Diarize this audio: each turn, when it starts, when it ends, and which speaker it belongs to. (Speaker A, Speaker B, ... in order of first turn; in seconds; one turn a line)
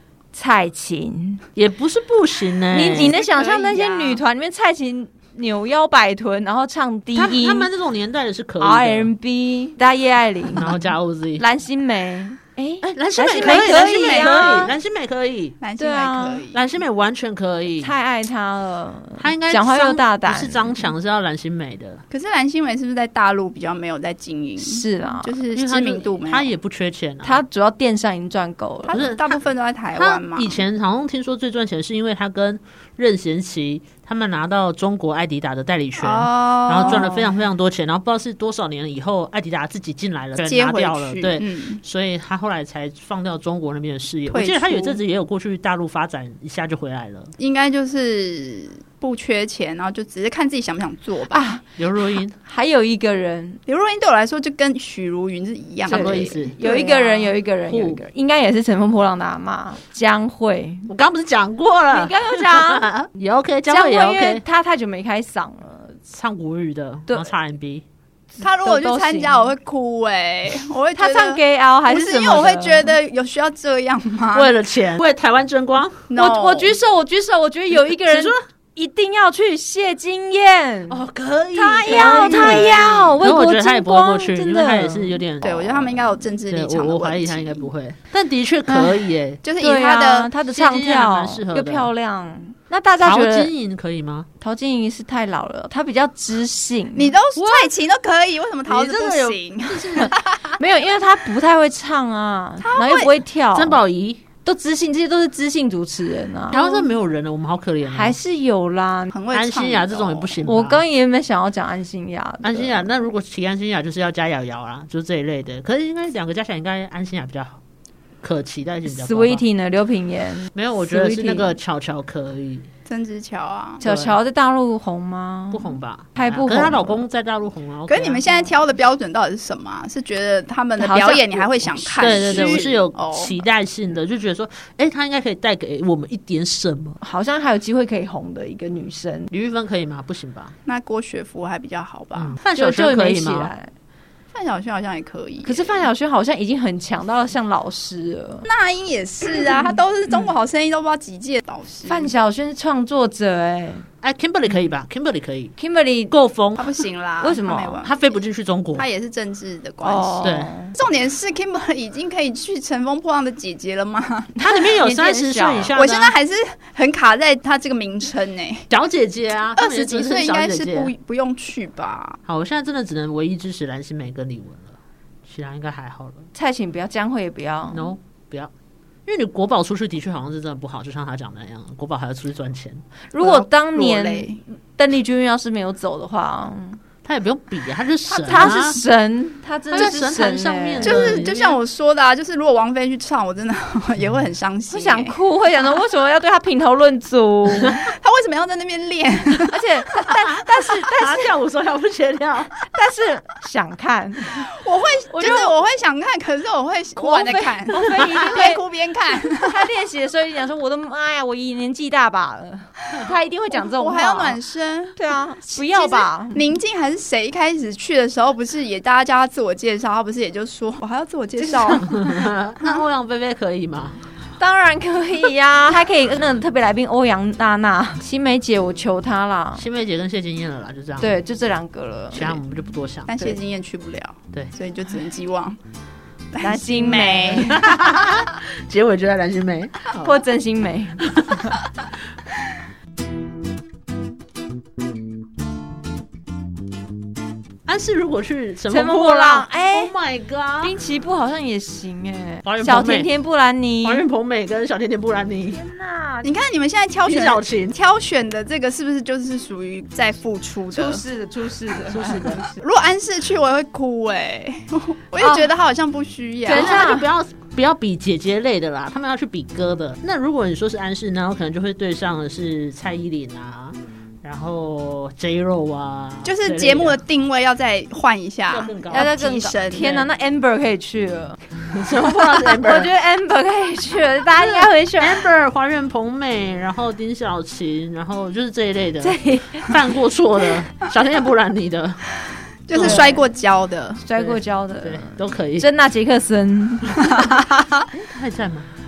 Speaker A: 0.3-1.4
Speaker B: 1.6-3.2
Speaker A: 2.7-7.7
Speaker C: 2.9-4.2
Speaker B: 7.2-9.1
Speaker A: 8.6-10.8
Speaker B: 10.6-11.4
Speaker A: 11.4-14.7
Speaker B: 12.9-15.6
Speaker C: 13.4-14.7
Speaker C: 15.6-16.6
Speaker A: 15.8-16.4
Speaker B: 16.5-17.9
Speaker A: 17.8-20.9
Speaker B: 19.2-22.0
Speaker C: 22.1-26.6
Speaker A: 24.6-25.4
Speaker B: 25.5-27.4
Speaker A: 27.2-29.1
Speaker C: 28.9-30.6
Speaker B: 28.9-29.4
Speaker B: 30.0-47.3
Speaker C: 36.0-37.1
Speaker A: 36.8-37.2
Speaker C: 40.4-41.8
Speaker C: 44.3-45.0
Speaker C: 47.4-51.6
Speaker A: 51.3-53.6
Speaker B: 51.8-52.4
Speaker C: 53.7-57.3
Speaker B: 55.9-56.6
Speaker A: 55.9-60.9
Speaker B: 57.7-58.0
Speaker B: 60.9-64.4
Speaker A: 61.9-62.9
Speaker A: 63.7-66.0
Speaker B: 66.1-67.8
Speaker A: 67.1-67.3
Speaker A: 68.3-69.5
Speaker C: 68.4-74.5
Speaker A: 71.0-73.0
Speaker B: 74.3-76.1
Speaker C: 76.1-76.8
Speaker A: 76.2-81.0
Speaker B: 77.9-78.4
Speaker B: 80.9-89.4
Speaker A: 81.5-85.2
Speaker C: 81.8-83.1
Speaker C: 85.4-87.7
Speaker A: 88.7-89.0
Speaker C: 89.4-90.3
Speaker A: 89.6-93.5
Speaker B: 90.5-91.9
Speaker B: 93.0-94.3
Speaker A: 94.4-97.2
Speaker C: 96.9-100.6
Speaker B: 97.3-97.7
Speaker B: 98.7-100.1
Speaker A: 100.0-103.8
Speaker C: 102.6-103.2
Speaker B: 103.5-104.2
Speaker A: 104.4-106.8
Speaker B: 106.5-108.2
Speaker A: 107.9-109.1
Speaker C: 109.1-110.5
Speaker B: 109.3-110.8
Speaker A: 110.4-112.9
Speaker B: 112.4-117.6
Speaker B: 118.2-119.4
Speaker A: 118.9-121.6
Speaker B: 120.5-122.7
Speaker C: 122.9-123.8
Speaker A: 123.8-127.0
Speaker B: 123.8-124.2
Speaker B: 125.5-128.4
Speaker C: 127.9-133.4
Speaker A: 130.8-132.8
Speaker B: 132.0-137.0
Speaker A: 137.0-139.3
Speaker B: 139.3-140.5
Speaker C: 140.7-142.4
Speaker B: 142.2-143.5
Speaker A: 142.5-143.7
Speaker C: 144.3-145.9
Speaker A: 145.4-148.5
Speaker C: 148.5-152.1
Speaker A: 151.8-153.9
Speaker B: 154.0-155.5
Speaker A: 155.6-156.1
Speaker B: 156.1-156.7
Speaker C: 156.6-158.2
Speaker A: 157.2-157.8
Speaker B: 157.8-158.9
Speaker C: 158.8-164.4
Speaker A: 159.8-160.7
Speaker B: 160.2-160.5
Speaker B: 164.4-166.2
Speaker A: 164.5-165.7
Speaker C: 165.7-168.7
Speaker B: 168.7-170.9
Speaker C: 169.6-172.2
Speaker B: 172.3-176.3
Speaker A: 176.3-178.0
Speaker B: 177.7-178.5
Speaker B: 179.1-182.8
Speaker A: 183.1-186.8
Speaker C: 183.2-184.4
Speaker B: 187.0-188.8
Speaker A: 188.1-191.6
Speaker B: 189.7-191.4
Speaker C: 190.8-195.2
Speaker A: 194.7-197.8
Speaker C: 197.8-199.6
Speaker A: 199.5-201.3
Speaker B: 200.3-202.5
Speaker A: 202.7-204.5
Speaker C: 204.3-209.6
Speaker A: 205.1-205.5
Speaker A: 207.0-208.6
Speaker A: 209.2-214.4
Speaker C: 213.5-215.0
Speaker A: 215.0-216.4
Speaker C: 215.5-222.0
Speaker A: 221.4-222.1
Speaker B: 221.8-224.0
Speaker A: 224.4-229.7
Speaker B: 229.6-231.2
Speaker A: 231.0-232.4
Speaker B: 232.1-233.3
Speaker C: 233.1-235.6
Speaker C: 236.3-237.7
Speaker A: 236.4-237.7
Speaker B: 237.4-240.2
Speaker A: 240.0-241.4
Speaker B: 241.0-241.4
Speaker B: 247.7-250.8
Speaker A: 248.7-249.9
Speaker A: 250.6-254.0
Speaker B: 252.4-253.1
Speaker B: 253.8-255.6
Speaker A: 255.5-256.4
Speaker C: 256.2-261.0
Speaker B: 257.1-257.8
Speaker A: 260.7-262.6
Speaker B: 261.9-262.4
Speaker C: 262.6-266.9
Speaker A: 265.2-265.5
Speaker A: 266.4-267.1
Speaker B: 266.5-277.0
Speaker C: 276.2-280.0
Speaker B: 278.5-279.1
Speaker A: 278.9-281.4
Speaker B: 279.8-280.1
Speaker B: 281.7-282.9
Speaker A: 282.0-285.2
Speaker B: 284.4-292.1
Speaker A: 289.0-289.8
Speaker C: 292.7-294.0
Speaker B: 292.7-293.1
Speaker A: 292.8-293.3
Speaker A: 294.0-297.0
Speaker B: 294.1-295.7
Speaker C: 297.0-297.9
Speaker B: 297.9-298.7